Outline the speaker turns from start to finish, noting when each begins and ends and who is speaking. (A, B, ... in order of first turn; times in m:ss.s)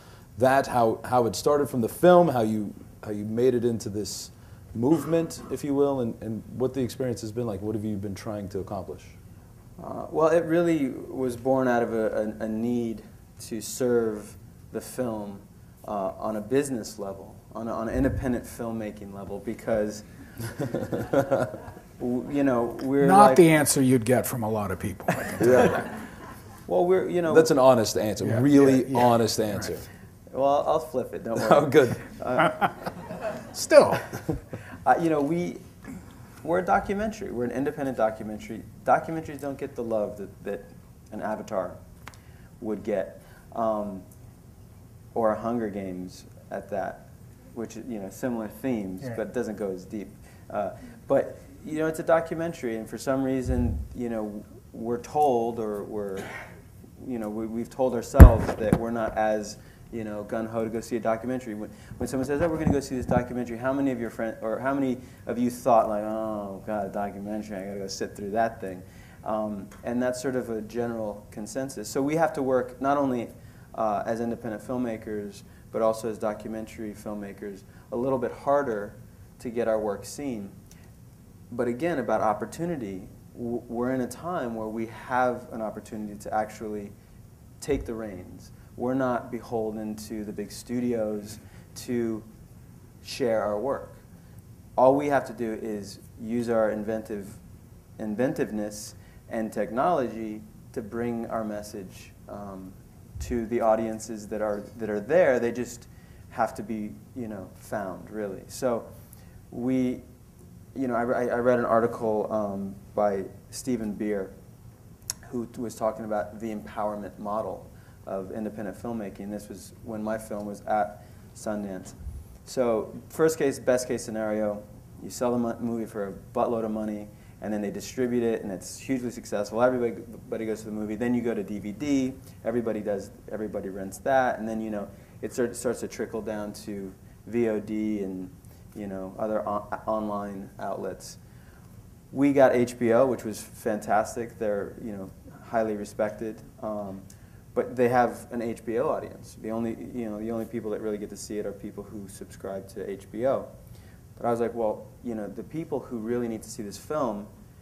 0:00.4-0:09.2 A
0:09.8-0:20.0 B
0:22.0-0:23.5 B
0:23.0-0:25.9 C
0:25.4-0:25.8 A
0:26.7-0:27.5 B
0:27.3-0:29.8 A
0:28.2-0:29.7 C
0:30.3-0:32.7 B
0:31.4-0:32.0 A
0:33.5-0:34.0 C
0:34.8-0:35.6 B
0:36.4-0:41.8 B
0:42.6-0:44.0 B
0:45.1-0:56.3 B
0:57.0-1:20.6 B
1:21.5-1:26.9 B
1:27.6-1:32.3 B
1:33.0-1:34.0 B
1:34.8-1:37.4 B
1:38.0-1:48.9 B
1:49.5-1:50.0 B
1:50.8-1:54.3 B
1:55.3-2:21.2 B
2:22.1-2:33.5 B
2:34.2-2:37.3 B